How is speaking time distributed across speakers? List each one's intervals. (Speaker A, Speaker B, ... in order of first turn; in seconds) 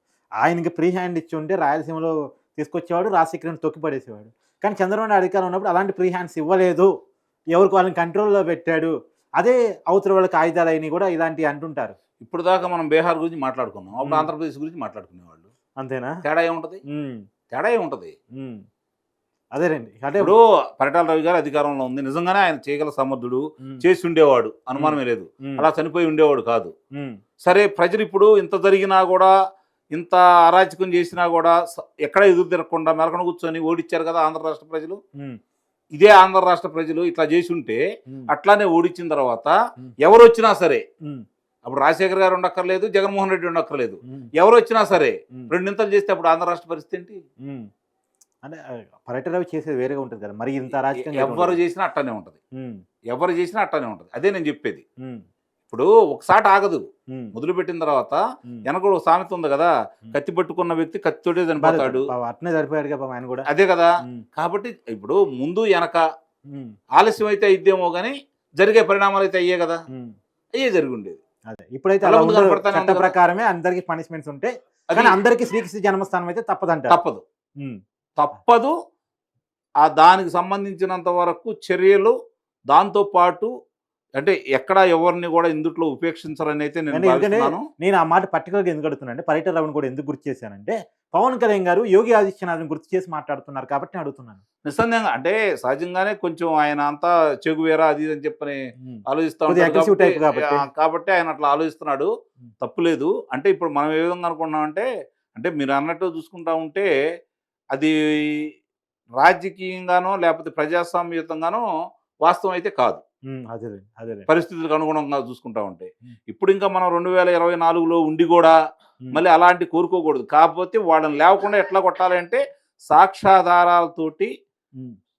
Speaker A: 0.4-6.9, 7.5-12.0, 14.0-14.3, 15.8-16.1, 16.9-17.2, 18.3-18.6, 19.5-20.4, 24.7-25.7, 26.9-27.2, 47.4-47.7, 48.4-51.6, 52.5-52.8, 61.6-63.5, 66.5-66.8, 69.9-70.2, 71.5-77.0, 86.9-94.4, 98.8-100.7, 113.3-114.3
Speaker B: 12.2-15.5, 16.2-16.8, 17.5-18.1, 20.2-26.7, 27.4-29.3, 29.9-35.0, 36.0-40.8, 41.6-47.2, 50.7-52.4, 53.1-54.8, 55.7-62.1, 63.5-66.0, 67.0-69.8, 70.6-71.2, 72.0-73.1, 74.9-75.2, 76.9-77.2, 78.2-78.7, 79.8-82.1, 82.7-83.5, 84.2-87.6, 94.7-102.1, 102.6-106.9, 107.7-108.4, 109.2-111.6, 112.2-113.0, 114.3-118.5, 119.1-124.3